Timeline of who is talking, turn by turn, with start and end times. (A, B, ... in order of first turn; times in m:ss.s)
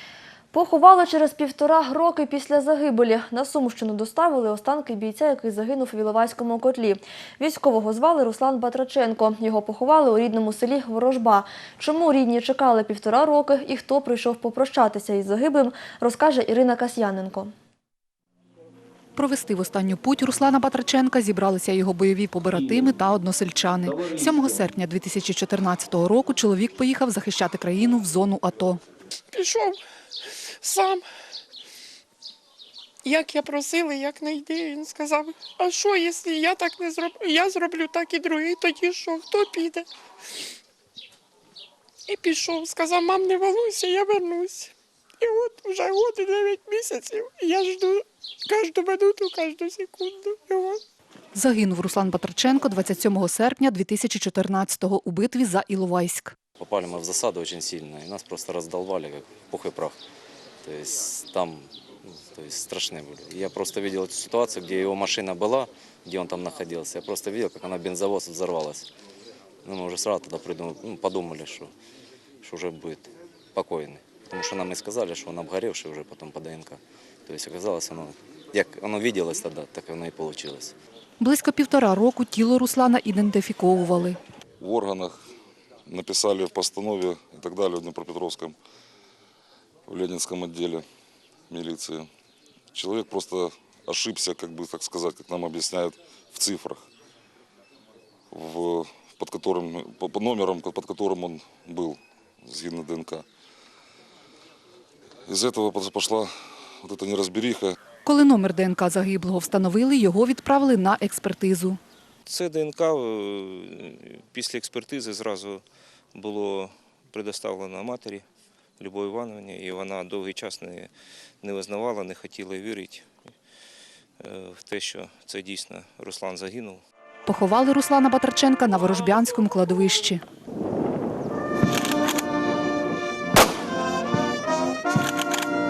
0:00.5-0:17.5 A
0:19.2-0:28.8 B
0:29.3-0:29.8 C
0:30.6-0:31.0 C
0:33.0-0:39.9 C
0:42.1-0:50.8 C
0:51.3-0:56.3 B
0:56.6-1:00.0 D
1:00.6-1:08.9 D
1:09.6-1:11.7 D
1:12.4-1:20.7 D
1:21.2-1:24.2 B
1:24.6-1:25.2 E
1:25.8-1:28.6 E
1:29.9-1:30.8 E
1:31.5-1:32.1 E
1:32.7-1:36.9 E
1:38.3-1:43.2 E
1:45.3-1:46.3 E
1:46.8-1:47.8 E
1:48.0-1:51.8 B
1:52.2-1:55.6 F
1:56.1-1:58.2 F
1:58.8-2:00.9 F
2:01.4-2:03.1 F
2:04.2-2:06.8 F
2:07.3-2:10.2 B